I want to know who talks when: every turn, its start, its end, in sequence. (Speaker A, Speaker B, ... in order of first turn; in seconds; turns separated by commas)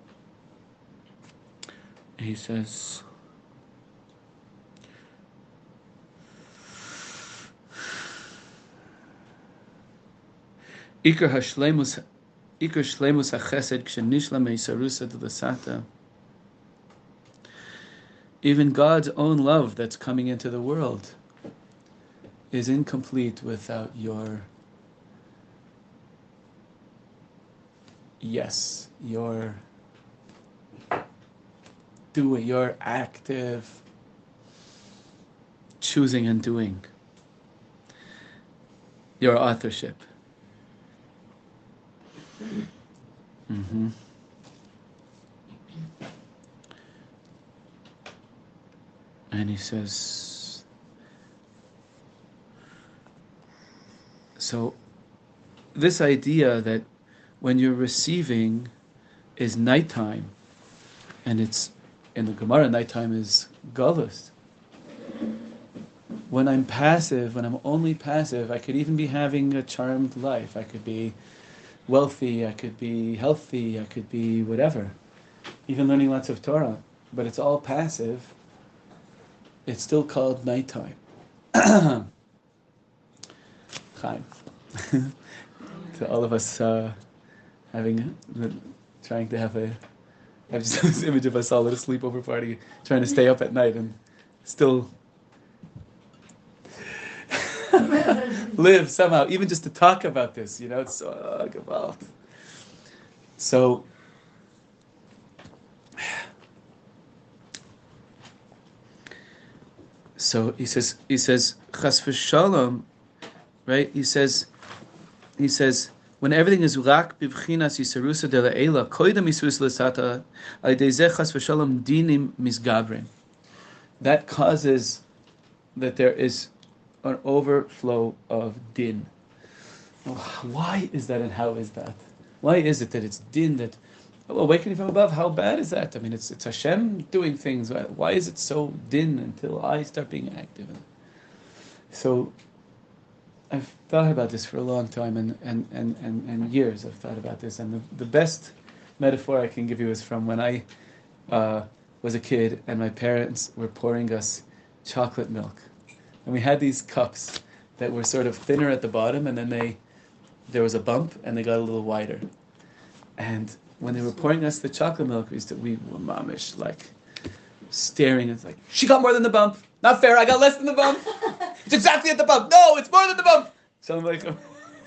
Speaker A: 2.2-3.0, Speaker A: 11.0-12.0, Speaker A: 12.6-15.9, Speaker A: 18.4-21.1, Speaker A: 22.5-24.5, Speaker A: 28.2-29.6, Speaker A: 32.1-33.8, Speaker A: 35.8-36.9, Speaker A: 39.2-40.1, Speaker A: 43.5-43.9, Speaker A: 49.3-50.6, Speaker A: 54.4-54.8, Speaker A: 55.7-56.9, Speaker A: 57.4-58.7, Speaker A: 59.4-60.3, Speaker A: 61.2-64.3, Speaker A: 66.3-71.2, Speaker A: 71.9-74.9, Speaker A: 75.7-78.3, Speaker A: 79.7-81.0, Speaker A: 81.5-82.1, Speaker A: 83.9-85.1, Speaker A: 85.9-87.0, Speaker A: 87.7-89.8, Speaker A: 90.5-94.9, Speaker A: 97.3-102.1, Speaker A: 103.4-103.9, Speaker A: 110.2-112.9, Speaker A: 113.7-114.5, Speaker A: 115.4-123.1, Speaker A: 124.0-125.0, Speaker A: 125.8-126.5, Speaker A: 127.0-129.1, Speaker A: 130.1-140.8, Speaker A: 141.9-142.3, Speaker A: 143.5-150.7, Speaker A: 151.3-155.7, Speaker A: 156.2-159.8, Speaker A: 160.5-162.3, Speaker A: 163.2-166.9, Speaker A: 167.7-174.4